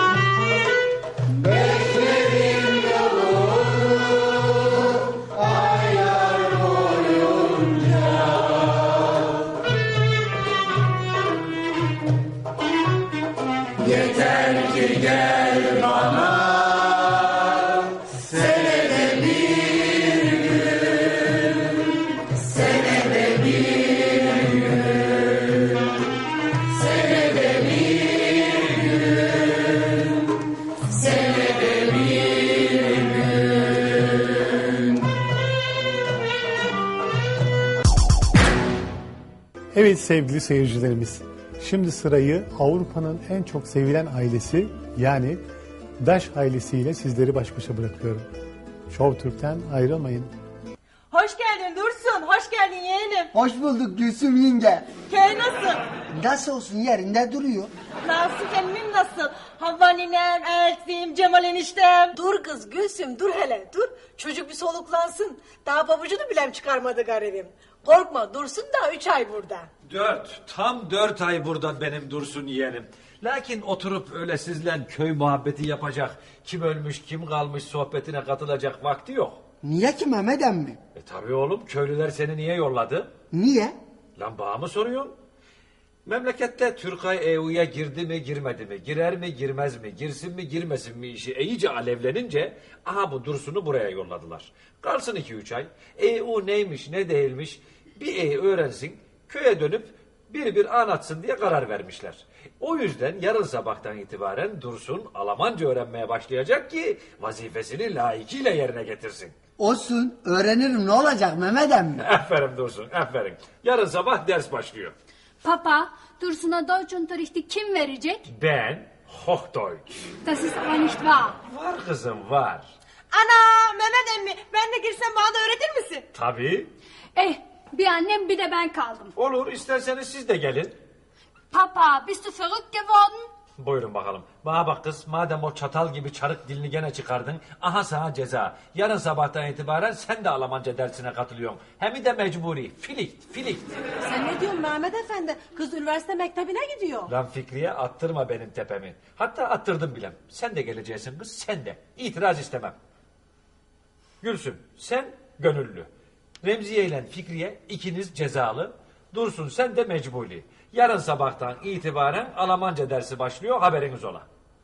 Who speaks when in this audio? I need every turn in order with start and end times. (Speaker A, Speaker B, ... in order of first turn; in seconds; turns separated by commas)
Speaker A: 39.7-45.4, Speaker A: 46.0-48.3, Speaker A: 48.9-50.3, Speaker B: 51.1-53.3, Speaker C: 53.4-54.9, Speaker B: 55.1-55.8, Speaker C: 56.1-57.7, Speaker B: 58.0-69.7, Speaker D: 69.9-79.4, Speaker C: 79.6-80.8, Speaker D: 81.0-83.1, Speaker C: 83.3-83.8, Speaker D: 84.2-85.2, Speaker D: 86.0-109.3, Speaker C: 109.6-112.0, Speaker D: 112.0-114.9, Speaker E: 115.4-118.2, Speaker D: 118.3-120.2, Speaker E: 120.2-121.3, Speaker D: 121.4-122.7, Speaker B: 123.1-126.0, Speaker D: 126.1-126.7, Speaker E: 127.2-129.1, Speaker D: 129.2-130.8, Speaker E: 131.5-133.3, Speaker D: 133.6-143.7, Speaker B: 144.0-147.1, Speaker D: 147.1-152.8, Speaker D: 154.2-155.9, Speaker D: 156.4-164.3